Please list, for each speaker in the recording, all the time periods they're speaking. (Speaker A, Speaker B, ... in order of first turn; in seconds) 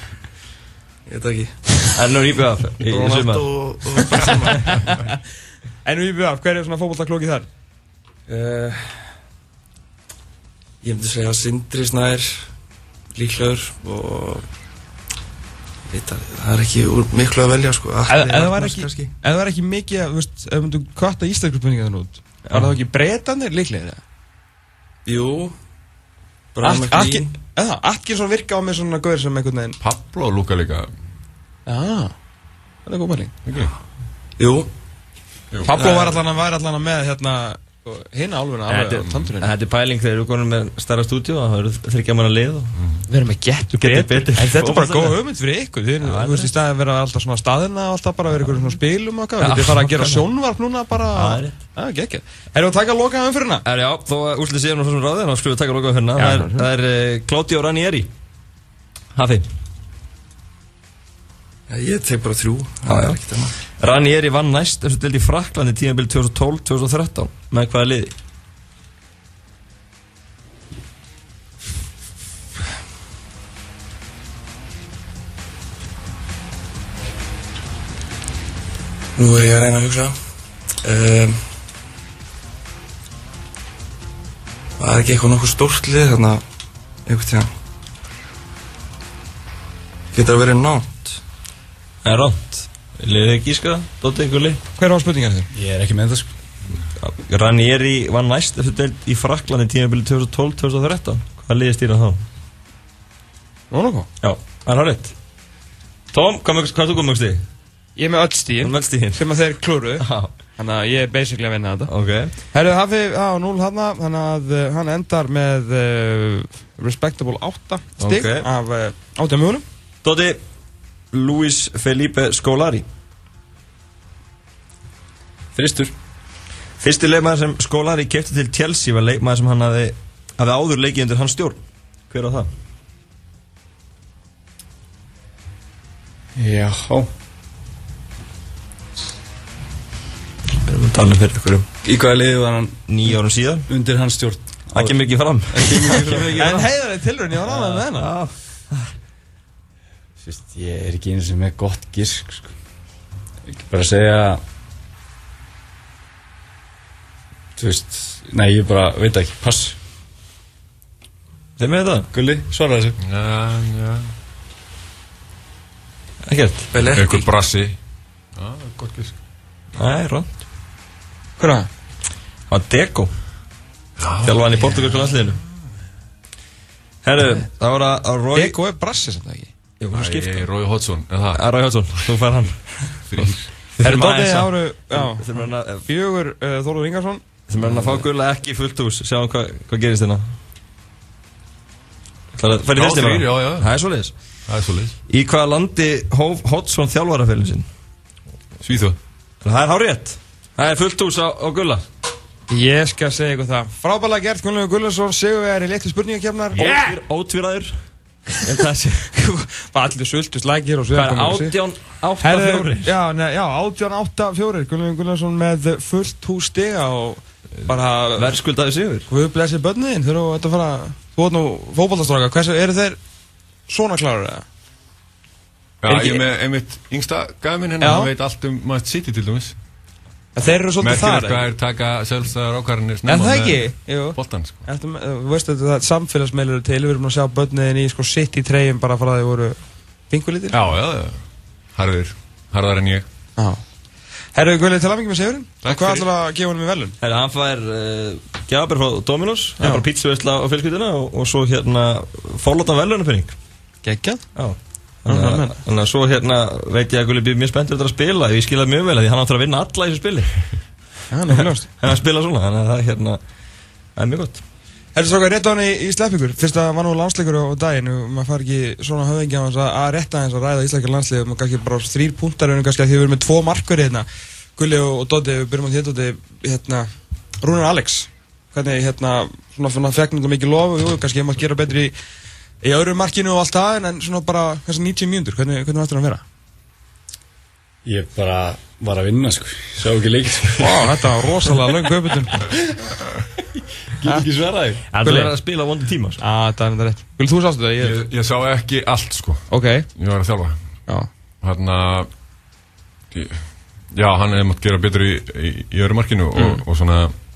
Speaker A: 1.1-1.9, 2.8-4.7, 8.3-8.9, 10.8-12.5, 13.1-14.5, 15.9-19.1, 25.1-25.5, 26.5-27.3, 34.4-34.7, 35.7-36.2, 61.7-63.5, 79.2-80.2, 80.8-81.4, 84.8-86.4, 87.0-87.5, 90.1-91.2, 166.7-167.3
Speaker B: 1.9-3.5, 22.5-22.7, 38.7-42.7, 43.7-45.2, 46.0-46.5, 49.4-50.3, 51.1-51.5, 53.6-58.1, 59.1-59.5, 62.8-63.2, 63.8-68.1, 92.0-94.6, 96.9-102.2, 104.2-105.1, 106.1-107.4, 108.6-109.3, 110.0-110.3, 111.9-112.3, 118.0-118.5, 120.0-120.4, 121.1-122.8, 126.8-132.5, 140.5-141.7, 142.9-143.7, 144.7-146.6, 147.4-148.9, 161.6-162.1, 166.2-166.7, 169.8-170.3, 172.5-173.1, 174.2-175.4, 177.0-178.6, 179.8-180.4, 181.3-182.6, 183.8-185.8, 187.5-190.2, 192.3-194.1, 195.1-197.7, 199.4-201.8, 206.5-207.7, 208.4-209.2, 210.9-212.9, 218.1-219.1, 247.0-253.3, 254.3-260.3, 261.4-263.2, 263.9-264.4, 294.9-296.2
Speaker C: 4.7-5.1, 5.8-7.5, 18.1-24.0, 26.6-29.8, 31.6-32.1, 32.9-33.3, 35.6-39.5, 43.1-53.6, 56.1-56.7, 94.8-95.5, 103.7-104.1, 108.0-110.0, 110.6-111.9, 112.5-119.6, 146.3-148.1, 171.4-171.7, 178.3-179.5, 183.8-187.2, 202.5-206.9, 209.2-211.5, 212.2-218.4, 219.1-223.0, 223.7-224.4, 225.9-226.2, 227.8-228.1, 230.3-231.5, 233.1-239.6, 240.1-240.6, 244.3-246.9, 249.6-249.8, 253.8-254.2, 255.1-255.6, 261.1-261.7, 264.9-276.9, 277.4-281.9, 282.6-286.2, 290.6-292.4, 295.0-295.3, 296.2-298.0, 299.5-299.9
Speaker D: 29.8-30.9, 33.5-33.7, 42.8-43.0, 163.0-164.1, 166.8-167.8, 168.3-169.2, 174.0-174.8, 179.9-181.4, 183.1-183.5, 192.7-193.7, 194.5-194.9, 198.6-199.0, 225.8-229.6, 230.8-234.6, 240.5-241.2, 241.7-243.1, 245.6-246.1, 297.8-300.6, 301.4-302.1, 303.1-307.1
Speaker E: 95.5-96.3, 125.5-125.9, 136.3-137.1, 141.8-142.8, 143.7-146.7, 150.2-152.5, 153.5-154.4, 157.6-159.8, 162.1-163.0, 287.8-291.1, 294.0-294.8